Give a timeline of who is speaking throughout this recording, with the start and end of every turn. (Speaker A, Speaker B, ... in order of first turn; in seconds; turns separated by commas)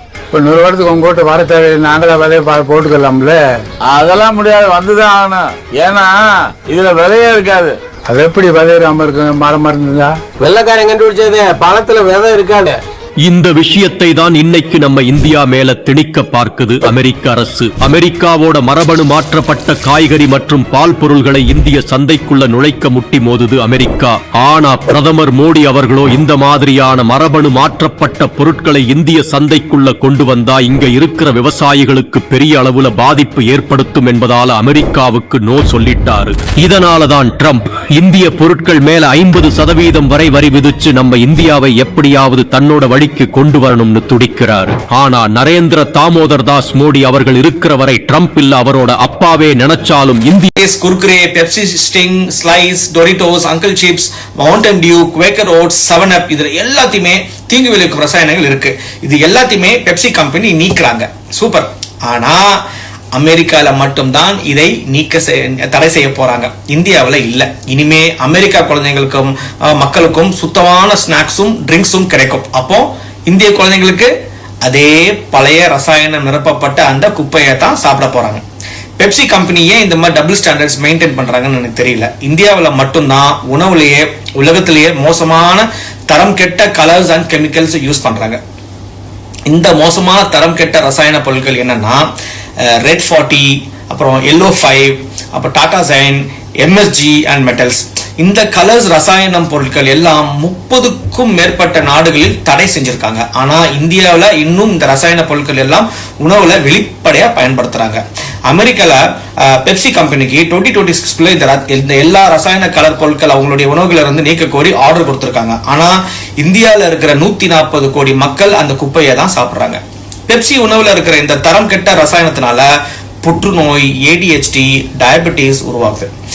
Speaker A: 0.3-3.4, Speaker B: 3.9-7.8, Speaker A: 8.1-10.2, Speaker C: 10.4-12.8, Speaker D: 13.2-50.5, Speaker E: 50.6-62.6, Speaker E: 63.1-74.1, Speaker E: 74.6-78.4, Speaker E: 79.0-88.4, Speaker E: 89.5-92.1, Speaker E: 92.8-122.7, Speaker E: 123.2-126.1